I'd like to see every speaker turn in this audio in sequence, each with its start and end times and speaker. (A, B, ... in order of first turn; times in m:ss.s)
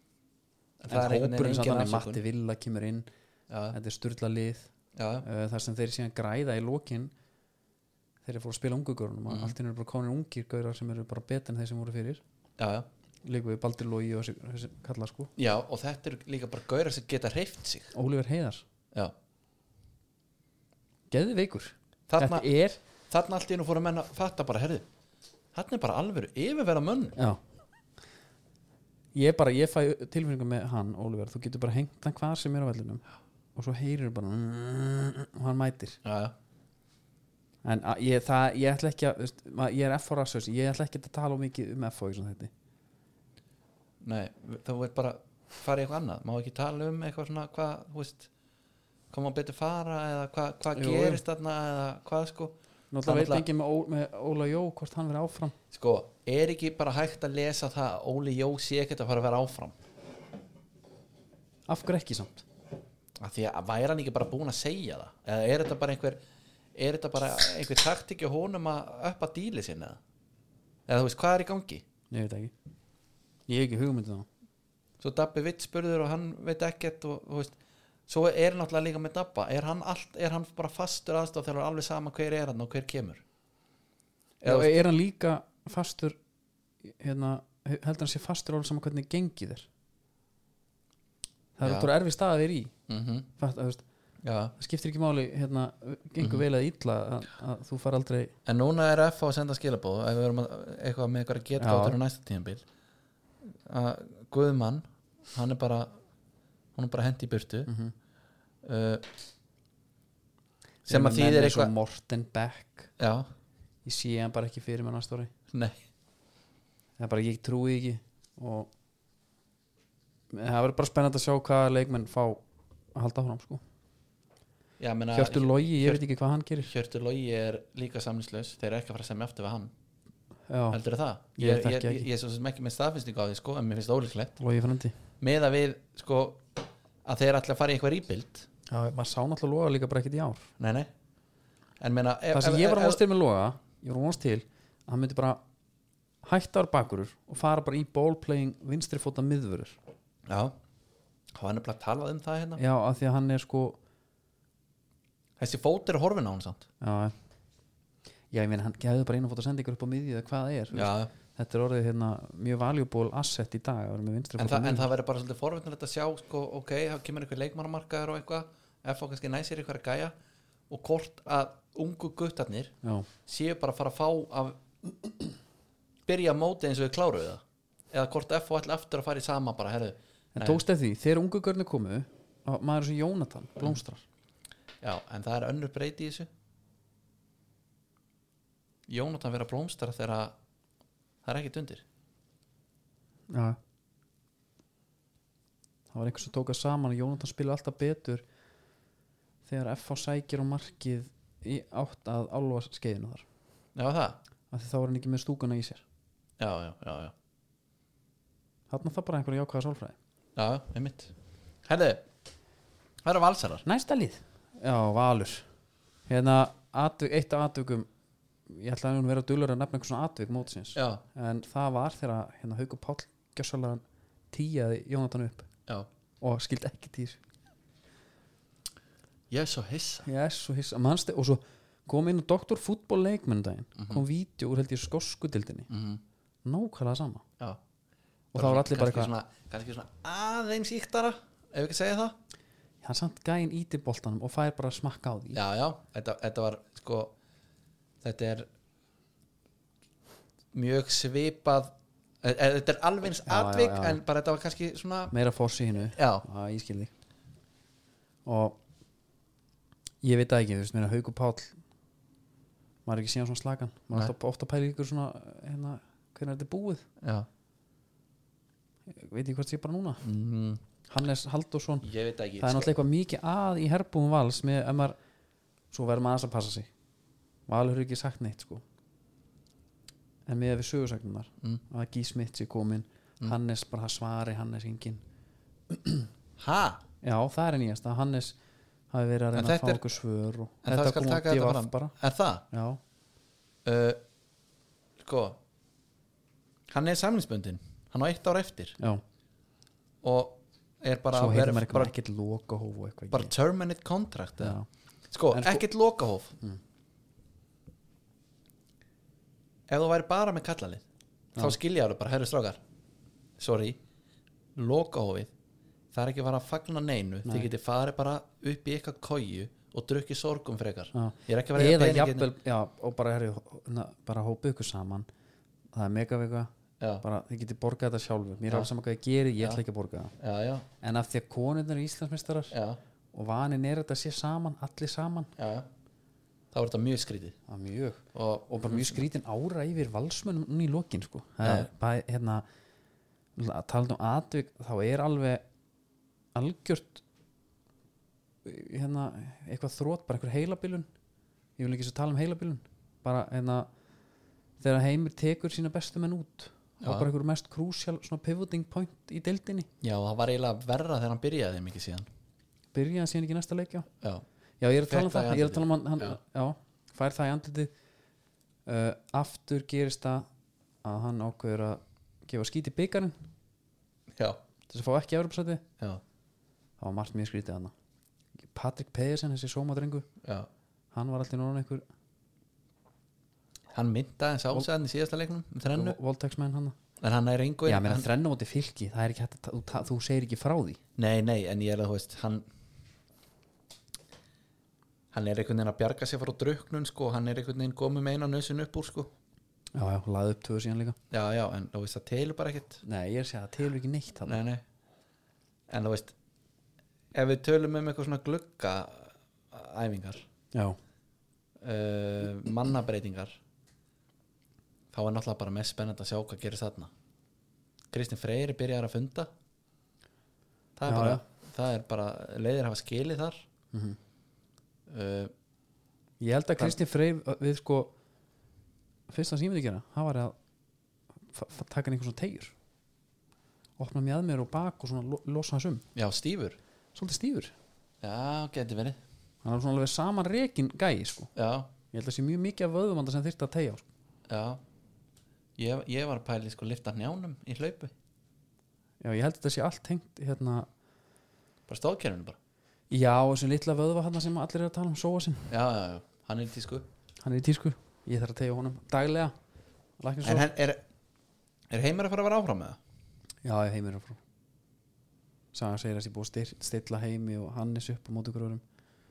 0:00.8-0:02.2 A
0:00.9-0:03.1 B
0:03.5-0:03.8 A
0:03.7-0:04.7 B
0:05.0-0:05.2 A
0:05.2-0:07.1 B
0:08.2-0:12.2 B
0:09.3-0:09.5 A
0:12.6-0:12.9 A
0:13.2-0:15.3 B
0:15.4-0:17.9 A
0:17.9-0:18.6 B
0:21.1-0:22.8 B
0:22.1-0:22.5 A
0:23.1-0:24.8 A
0:25.5-0:27.2 A
0:29.1-0:33.0 B
0:33.5-0:36.0 B
0:36.0-0:36.3 A
0:37.6-0:42.5 B
0:44.0-0:48.3 A
0:49.1-0:53.4 A
0:50.7-0:51.2 B
0:52.9-0:55.6 B
0:55.7-0:59.8 A
1:01.7-1:02.4 B
1:03.2-1:06.2 A
1:06.8-1:10.0 A
1:10.9-1:11.8 A
1:12.1-1:12.5 B
1:13.5-1:14.3 B
1:15.0-1:17.6 A
1:18.1-1:23.2 A
1:24.4-1:24.8 A
1:24.4-1:26.2 B
1:26.8-1:29.7 B
1:31.6-1:32.7 B
1:31.6-1:31.9 A
1:32.9-1:33.3 A
1:33.4-1:33.8 B
1:34.2-1:34.5 A
1:34.6-1:38.3 B
1:36.2-1:36.4 A
1:38.4-1:42.6 A
1:41.6-1:42.0 B
1:43.6-1:45.9 A
1:46.8-1:47.7 A
1:47.7-1:47.9 B
1:48.6-1:49.1 A
1:50.9-1:51.7 A
1:50.9-1:52.9 B
1:53.0-1:53.3 A
1:53.8-1:55.3 B
1:55.5-1:55.8 A
1:57.0-1:58.7 B
2:00.3-2:02.4 B
2:02.9-2:03.6 B
2:04.8-2:06.0 A
2:05.1-2:06.7 B
2:06.6-2:09.7 A
2:10.5-2:10.8 B
2:10.7-2:14.4 A
2:11.4-2:12.1 B
2:14.4-2:14.9 B
2:15.2-2:16.5 A
2:17.0-2:18.5 A
2:18.7-2:20.5 B
2:20.6-2:20.9 A
2:21.8-2:23.0 A
2:22.3-2:25.4 B
2:26.2-2:29.8 B
2:30.3-2:30.5 A
2:31.3-2:32.6 A
2:32.6-2:33.8 B
2:35.4-2:36.7 A
2:36.8-2:37.1 B
2:38.3-2:44.9 B
2:40.7-2:41.1 A
2:44.4-2:50.1 A
2:50.7-2:52.7 A
2:52.8-2:53.1 B
2:53.2-2:54.6 A
2:56.1-3:00.6 A
3:00.3-3:04.0 B
3:04.8-3:06.3 A
3:08.9-3:10.4 A
3:11.2-3:11.8 A
3:13.3-3:13.6 B
3:15.9-3:18.2 B
3:19.4-3:23.2 B
3:23.8-3:24.2 A
3:24.5-3:25.8 B
3:26.4-3:27.1 A
3:28.7-3:30.0 B
3:30.4-3:31.1 A
3:31.6-3:32.0 A
3:33.0-3:33.6 A
3:33.6-3:35.5 B
3:36.1-3:37.9 B
3:38.4-3:45.5 B
3:40.7-3:41.0 A
3:46.2-3:47.2 B
3:49.3-3:50.1 A
3:50.0-3:55.7 B
3:53.8-3:54.0 A
3:55.7-3:56.0 A
3:56.4-3:57.2 B
3:58.3-3:59.1 B
3:58.3-4:02.2 A
4:02.8-4:05.4 B
4:05.3-4:07.1 A
4:08.0-4:08.5 A
4:10.5-4:15.1 A
4:13.2-4:14.0 B
4:15.1-4:16.9 B
4:15.9-4:16.2 A
4:18.2-4:18.6 B
4:20.0-4:21.6 B
4:22.8-4:26.8 B
4:27.0-4:27.3 A
4:28.9-4:30.0 B
4:30.0-4:30.6 A
4:30.9-4:31.9 B
4:31.8-4:32.7 A
4:32.4-4:35.0 B
4:35.7-4:36.7 B
4:37.5-4:38.6 B
4:40.2-4:45.0 B
4:45.7-4:46.1 B
4:46.4-4:46.8 A
4:47.0-4:48.4 B
4:48.9-4:51.9 B
4:49.3-4:49.8 A
4:50.6-4:52.4 A
4:52.5-4:52.8 B
4:53.6-4:54.0 A
4:55.0-4:55.4 A
4:56.7-4:58.8 A
5:00.0-5:01.9 A
5:01.1-5:03.3 B
5:03.1-5:04.6 A
5:04.4-5:04.6 B
5:05.1-5:06.4 A
5:05.3-5:05.6 B
5:09.7-5:10.8 A
5:11.4-5:12.6 A
5:13.4-5:13.8 A
5:14.6-5:15.3 A
5:15.9-5:22.3 A
5:20.9-5:25.1 B
5:25.7-5:26.5 B
5:27.0-5:30.1 B
5:30.2-5:30.6 A
5:30.8-5:32.5 B
5:32.5-5:32.8 A
5:33.1-5:35.3 B
5:35.4-5:35.7 A
5:36.5-5:37.4 A
5:37.5-5:42.4 B
5:38.1-5:39.0 A
5:41.4-5:41.7 A
5:43.4-5:45.4 B
5:46.3-5:47.0 B
5:48.4-5:50.9 B
5:51.6-5:53.7 B
5:54.6-5:59.7 B
5:56.8-5:57.1 A
5:59.8-6:02.1 A
6:02.7-6:03.9 B
6:04.6-6:07.7 B
6:04.8-6:06.2 A
6:08.6-6:10.3 B
6:10.8-6:13.2 B
6:14.7-6:15.6 B
6:16.8-6:17.7 B
6:18.4-6:20.0 B
6:20.9-6:21.8 B
6:23.7-6:26.0 A
6:25.6-6:26.8 B
6:27.0-6:28.1 A
6:27.6-6:30.8 B
6:31.0-6:32.4 A
6:35.1-6:39.1 A
6:39.7-6:41.0 B
6:41.1-6:42.8 A
6:42.8-6:44.4 B
6:44.2-6:44.6 A
6:45.7-6:46.1 A
6:47.1-6:50.2 A
6:50.5-6:50.8 B
6:51.6-6:53.3 A
6:54.9-6:56.9 A
6:57.9-6:59.3 A
7:00.8-7:03.4 A
7:00.9-7:01.2 B
7:03.7-7:04.0 B
7:04.9-7:05.3 A
7:06.2-7:07.9 B
7:09.1-7:10.4 B
7:11.3-7:12.5 B
7:13.8-7:15.8 B
7:15.9-7:16.6 A
7:16.9-7:17.5 B
7:18.0-7:19.0 A
7:19.4-7:21.3 B
7:21.4-7:21.7 A
7:21.9-7:23.8 B
7:24.3-7:24.6 A
7:25.6-7:27.9 A
7:29.0-7:30.7 B
7:31.7-7:32.4 A
7:32.9-7:35.5 B
7:35.5-7:36.8 A
7:37.2-7:39.3 B
7:40.0-7:40.5 B
7:40.2-7:40.8 A
7:41.7-7:42.8 A
7:43.4-7:44.2 B
7:45.5-7:48.6 B